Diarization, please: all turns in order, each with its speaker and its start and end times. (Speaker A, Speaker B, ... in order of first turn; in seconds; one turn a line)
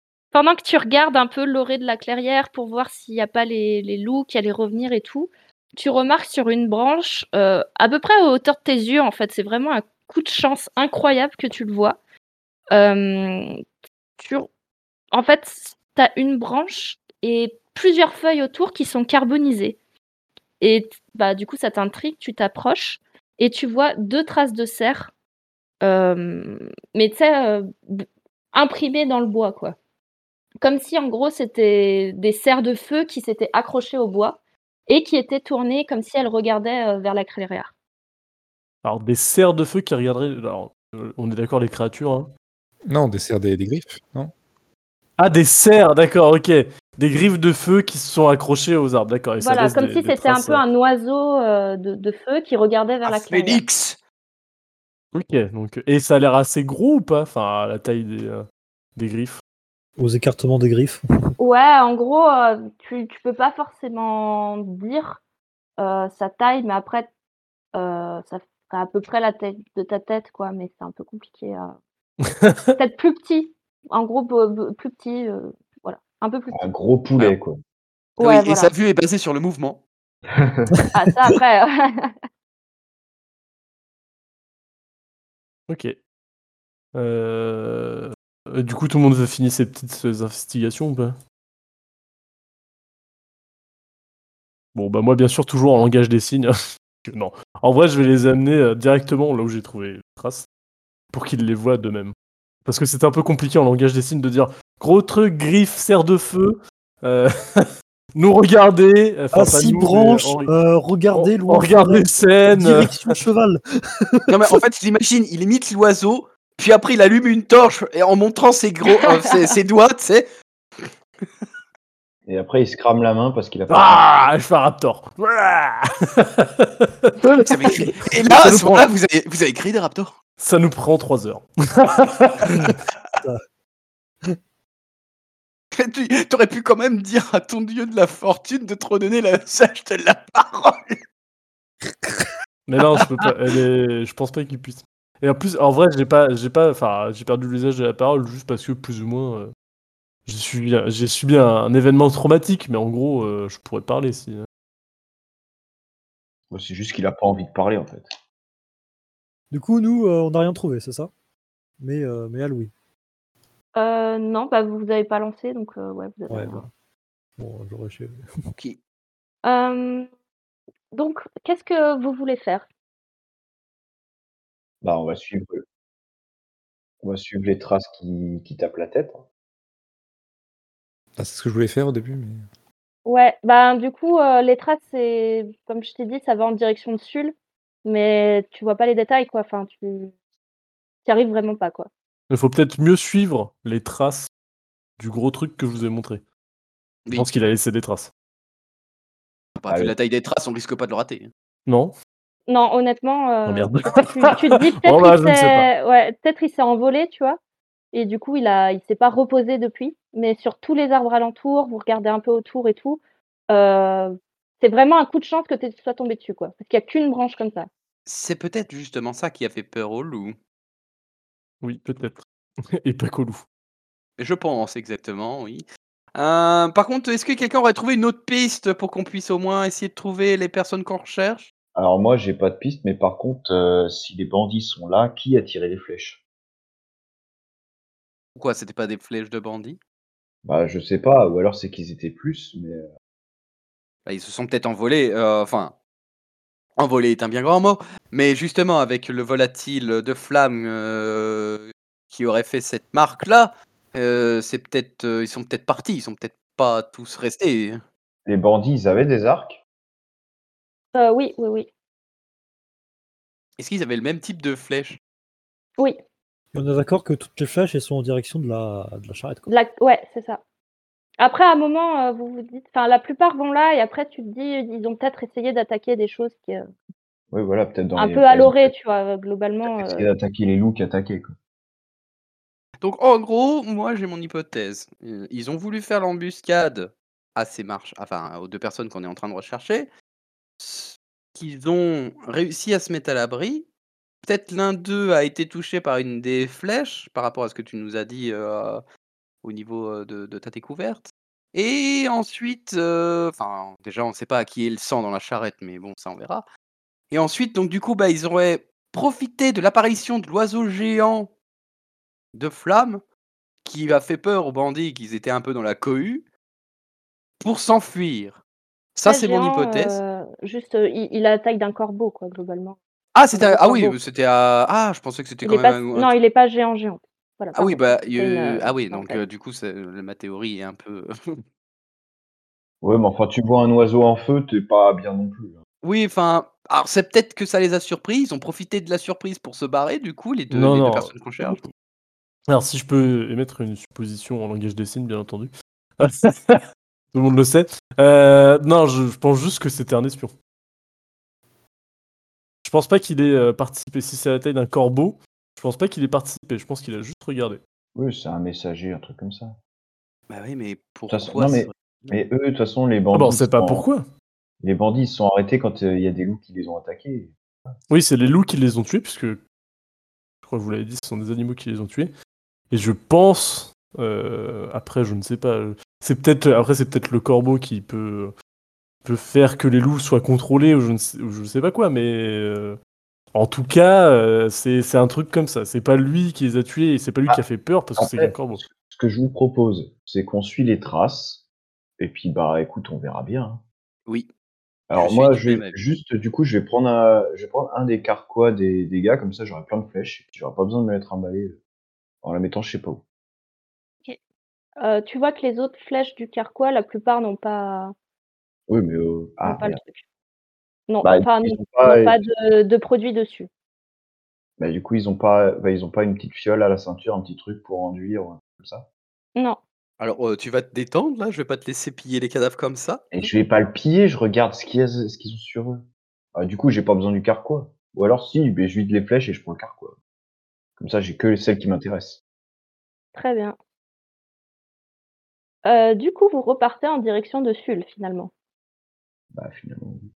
Speaker A: 0.3-12.0
Speaker A: 12.7-13.6
Speaker A: 14.2-14.5
Speaker A: 15.1-19.8
Speaker A: 20.6-25.1
Speaker A: 25.8-29.7
Speaker A: 30.6-37.7
Speaker B: 38.8-42.3
Speaker C: 42.9-44.3
Speaker B: 45.2-50.6
Speaker A: 49.4-53.6
Speaker D: 53.0-54.0
Speaker B: 55.1-58.4
Speaker B: 59.0-59.4
Speaker E: 60.0-61.0
Speaker A: 61.4-65.2
Speaker A: 65.8-67.1
Speaker A: 67.7-71.7
Speaker B: 72.2-72.8
Speaker A: 72.8-76.7
Speaker F: 76.5-77.6
Speaker A: 78.2-78.7
Speaker D: 78.2-79.8
Speaker F: 80.3-80.7
Speaker A: 80.9-82.1
Speaker B: 85.7-86.0
Speaker B: 86.9-91.2
Speaker B: 94.7-100.5
Speaker B: 101.1-102.1
Speaker B: 102.7-110.5
Speaker E: 109.3-114.6
Speaker B: 111.1-113.1
Speaker D: 114.3-120.2
Speaker F: 122.2-124.0
Speaker B: 123.7-128.8
Speaker D: 127.5-130.2
Speaker B: 130.4-132.8
Speaker E: 132.5-133.4
Speaker D: 135.7-141.0
Speaker B: 142.7-149.5
Speaker B: 150.2-154.4
Speaker F: 156.5-158.1
Speaker E: 159.5-161.1
Speaker E: 161.8-162.7
Speaker A: 163.8-166.6
Speaker E: 166.3-166.7
Speaker E: 167.4-168.2
Speaker D: 168.5-168.8
Speaker A: 169.4-170.1
Speaker A: 170.9-172.7
Speaker F: 174.8-175.6
Speaker F: 177.0-179.2
Speaker C: 181.2-182.4
Speaker A: 183.0-187.3
Speaker A: 187.8-190.1
Speaker A: 191.0-191.9
Speaker B: 192.3-194.3
Speaker B: 195.0-196.2
Speaker B: 197.1-198.1
Speaker D: 199.6-201.3
Speaker F: 199.7-199.9
Speaker B: 201.7-201.9
Speaker A: 202.5-207.4
Speaker B: 203.4-205.7
Speaker A: 207.9-217.7
Speaker D: 218.1-220.3
Speaker B: 221.6-222.2
Speaker B: 222.8-223.4
Speaker D: 224.2-231.5
Speaker F: 231.7-236.2
Speaker D: 238.3-239.8
Speaker F: 240.4-242.9
Speaker D: 244.1-245.8
Speaker D: 246.8-257.8
Speaker F: 258.2-259.6
Speaker A: 260.9-261.7
Speaker D: 263.6-265.0
Speaker E: 266.5-269.4
Speaker A: 269.5-270.4
Speaker A: 271.2-276.6
Speaker F: 277.3-278.7
Speaker A: 278.0-280.1
Speaker F: 279.6-281.3
Speaker D: 282.8-289.9
Speaker D: 290.6-293.7
Speaker D: 294.2-298.8
Speaker D: 299.4-306.4
Speaker D: 307.1-311.3
Speaker D: 312.3-313.0
Speaker D: 313.6-316.2
Speaker D: 317.4-318.4
Speaker D: 318.9-320.0
Speaker A: 319.1-322.8
Speaker D: 323.1-326.1
Speaker A: 323.3-323.9
Speaker A: 325.4-329.2
Speaker D: 327.5-331.4
Speaker F: 332.8-335.6
Speaker D: 335.8-341.6
Speaker B: 340.5-341.6
Speaker B: 342.5-350.3
Speaker B: 352.6-357.6
Speaker F: 357.9-359.6
Speaker D: 360.3-362.2
Speaker F: 361.1-363.9
Speaker B: 363.1-364.1
Speaker F: 364.6-367.3
Speaker B: 367.9-369.4
Speaker B: 370.4-372.1
Speaker B: 372.7-378.3
Speaker B: 379.0-382.8
Speaker B: 383.3-388.6
Speaker F: 387.9-391.4
Speaker F: 392.0-393.6
Speaker F: 394.9-401.6
Speaker D: 394.9-395.8
Speaker F: 402.2-403.0
Speaker A: 404.8-407.9
Speaker F: 408.7-409.8
Speaker A: 409.4-410.0
Speaker A: 410.9-413.5
Speaker F: 411.0-412.2
Speaker F: 414.6-418.9
Speaker D: 420.0-423.0
Speaker F: 423.1-425.8
Speaker F: 426.4-429.9
Speaker F: 430.8-432.2
Speaker A: 433.1-433.6
Speaker A: 435.6-438.3
Speaker F: 439.3-440.1